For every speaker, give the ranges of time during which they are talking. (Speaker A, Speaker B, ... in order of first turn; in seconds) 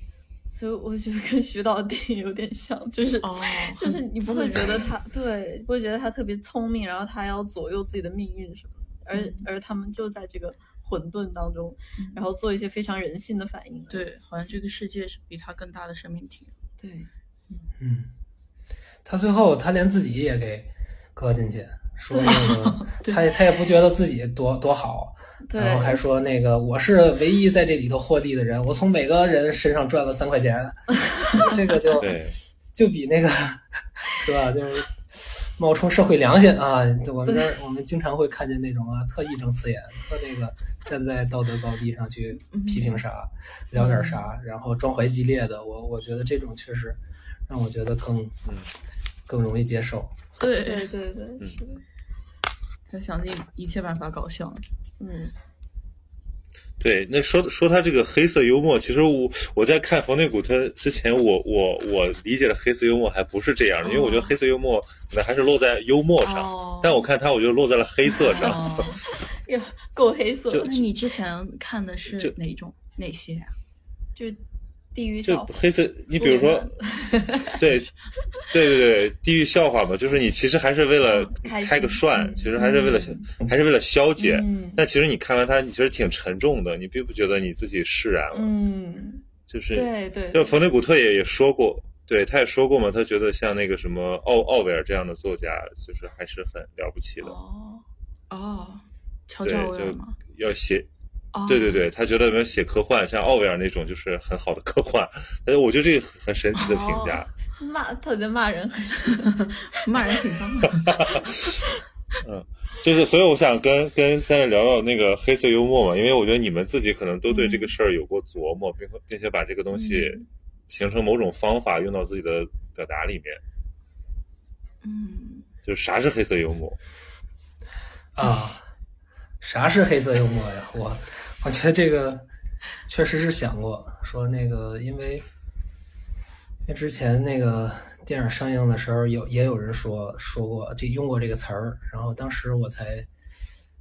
Speaker A: 0.5-14.0, 16.8-17.1, 22.1-22.5, 25.4-26.0, 50.6-51.8, 55.0-55.3, 66.2-67.0, 68.1-70.8, 74.1-74.4, 74.9-75.5, 76.1-77.6, 81.1-83.2, 84.2-84.8, 88.3-90.5, 97.3-97.8, 106.6-109.3, 110.1-110.5
Speaker B: 3.2-4.9, 9.1-9.5, 13.9-16.5, 22.2-23.2, 42.5-43.0, 43.7-44.3, 50.4-50.9, 52.9-54.6, 63.8-64.2, 68.3-69.0, 70.6-73.5, 82.5-83.0, 98.3-100.2, 101.3-101.9, 109.2-111.0, 119.7-120.2, 124.8-125.5
Speaker C: 17.8-18.1, 19.0-48.4, 49.3-50.1, 128.1-128.6, 129.4-132.3, 132.9-135.2, 136.6-143.1
Speaker D: 32.0-32.4, 56.8-68.7, 75.2-76.7, 77.6-77.9, 78.5-88.5, 89.5-97.3, 99.4-100.9, 101.5-107.3, 111.0-111.6, 112.2-123.4, 125.6-126.8